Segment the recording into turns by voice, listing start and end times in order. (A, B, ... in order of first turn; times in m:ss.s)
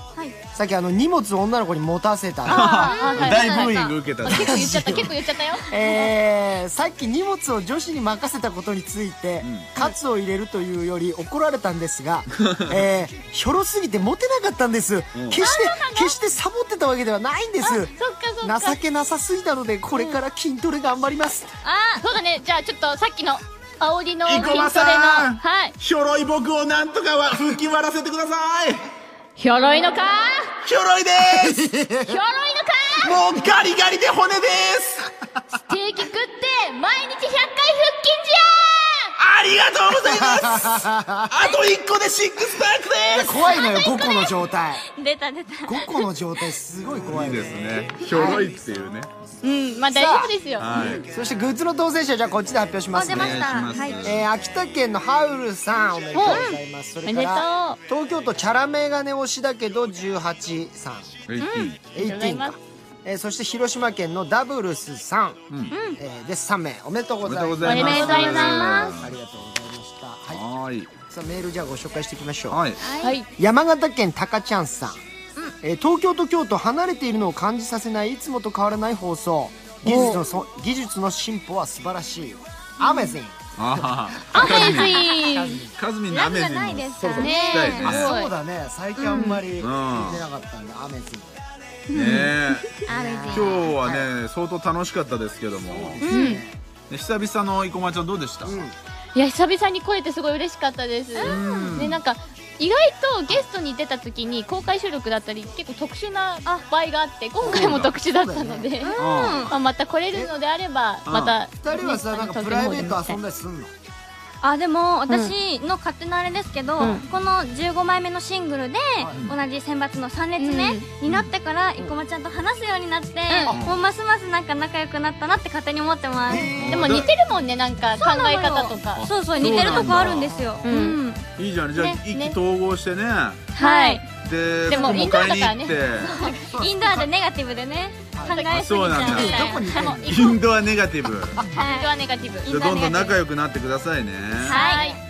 0:00.5-0:03.6 A
0:02.5-0:05.1 B
0:02.5-0:06.0 C
0:02.8-0:03.6 D
0:04.2-0:21.5 A
0:05.7-0:06.1 D
0:09.4-0:09.7 B
0:12.4-0:12.8 B
0:15.1-0:15.4 B
0:15.4-0:16.2 C
0:17.6-0:18.8 C
0:21.6-0:22.0 D
0:22.0-0:25.8 C
0:24.3-0:28.9 B
0:29.4-0:30.6 C
0:30.6-0:31.6 B
0:31.2-0:32.2 A
0:32.0-0:33.2 C
0:33.0-0:35.1 B
0:35.5-0:39.2 C
0:39.2-0:43.3 B
0:39.9-0:41.3 A
0:43.1-0:44.8 A
0:43.3-0:44.4 D
0:44.9-0:46.1 D
0:45.7-0:48.5 A
0:47.0-0:49.1 B
0:49.4-0:50.8 C
0:49.9-0:50.3 A
0:50.6-0:51.0 B
0:50.7-0:51.0 D
0:51.1-1:01.2 A
0:52.9-0:54.0 D
0:53.1-0:54.3 B
0:56.1-0:57.8 C
1:01.3-1:01.8 B
1:01.4-1:01.8 D
1:01.9-1:02.6 C
1:01.9-1:05.4 A
1:05.7-1:06.0 D
1:06.0-1:10.4 A
1:07.2-1:09.2 B
1:07.6-1:09.0 C
1:07.7-1:08.9 D
1:10.3-1:10.9 B
1:11.1-1:12.6 A
1:12.5-1:12.8 B
1:12.8-1:13.2 D
1:13.0-1:13.3 C
1:13.4-1:15.0 A
1:15.6-1:24.6 A
1:19.9-1:20.2 C
1:19.9-1:20.2 D
1:22.8-1:23.2 D
1:23.6-1:25.1 B
1:24.3-1:25.6 C
1:24.4-1:28.1 D
1:25.2-1:25.8 A
1:25.8-1:28.1 B
1:27.2-1:28.3 C
1:27.8-1:31.4 A
1:29.0-1:29.4 D
1:29.1-1:29.4 C
1:29.6-1:30.2 B
1:31.9-1:33.7 D
1:31.9-1:32.8 B
1:32.9-1:34.1 A
1:33.3-1:36.0 B
1:35.6-1:36.6 A
1:36.0-1:36.3 D
1:36.1-1:36.4 C
1:36.9-1:38.7 B
1:38.4-1:38.8 A
1:39.2-1:49.0 C
1:41.2-1:41.8 D
1:41.2-1:42.0 B
1:47.4-1:48.8 A
1:47.5-1:47.9 B
1:48.8-1:49.6 D
1:49.0-1:49.6 B
1:49.5-1:53.2 C
1:51.1-1:51.4 B
1:51.6-1:53.7 A
1:54.4-2:06.6 D
1:55.1-1:55.3 C
1:56.8-1:57.0 C
2:00.4-2:00.9 C
2:01.1-2:01.3 B
2:03.3-2:03.6 C
2:03.5-2:03.8 B
2:06.3-2:07.2 A
2:06.3-2:07.1 B
2:06.7-2:09.6 C
2:08.0-2:11.3 D
2:09.0-2:10.3 B
2:09.4-2:10.7 A
2:10.6-2:11.0 C
2:11.4-2:13.5 B
2:11.8-2:12.4 C
2:13.6-2:14.1 D
2:13.6-2:14.0 C
2:14.2-2:16.3 B
2:14.7-2:15.4 D
2:14.7-2:15.9 C
2:16.0-2:20.0 D
2:16.4-2:17.1 A
2:18.1-2:20.3 A
2:18.3-2:20.4 C
2:18.5-2:21.4 B
2:21.4-2:23.2 D
2:21.6-2:22.5 C
2:22.5-2:24.6 B
2:24.4-2:25.0 D
2:24.4-2:25.0 C